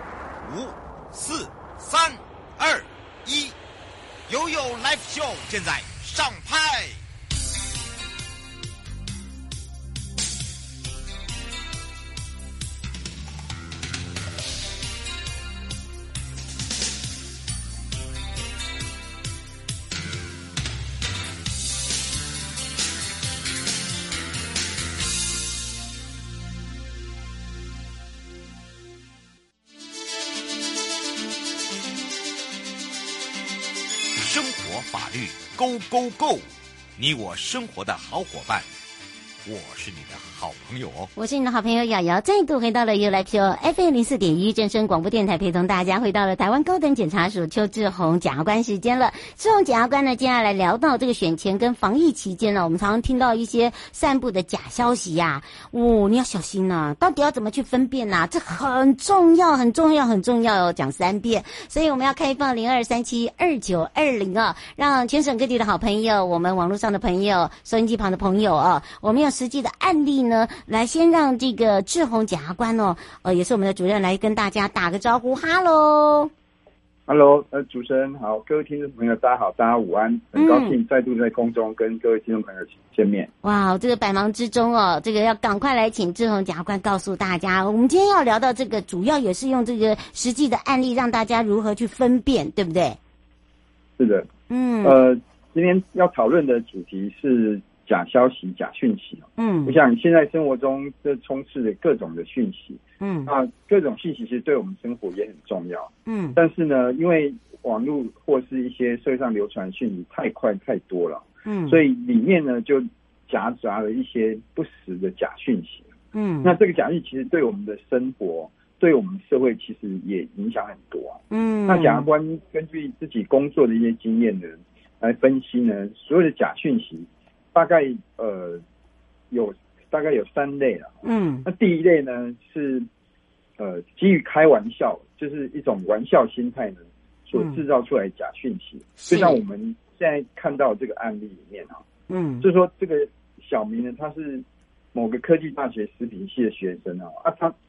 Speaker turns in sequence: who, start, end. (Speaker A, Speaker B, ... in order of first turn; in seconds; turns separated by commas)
Speaker A: 0.4-3.5, Speaker A: 4.3-7.0, Speaker A: 34.2-38.7, Speaker A: 39.4-41.1, Speaker B: 41.1-76.3, Speaker C: 77.1-83.3, Speaker B: 80.3-80.8, Speaker B: 83.4-93.0, Speaker C: 94.0-94.3, Speaker B: 94.5-95.0, Speaker C: 94.8-115.8, Speaker B: 99.4-99.8, Speaker B: 103.0-103.3, Speaker B: 106.1-106.4, Speaker B: 111.5-111.8, Speaker B: 116.1-116.5, Speaker C: 116.4-128.6, Speaker B: 121.3-122.1, Speaker C: 129.3-130.9, Speaker B: 131.0-131.4, Speaker C: 131.4-132.8, Speaker C: 133.6-141.8, Speaker B: 137.3-137.6, Speaker B: 139.0-139.4, Speaker B: 142.1-142.4, Speaker C: 142.4-147.5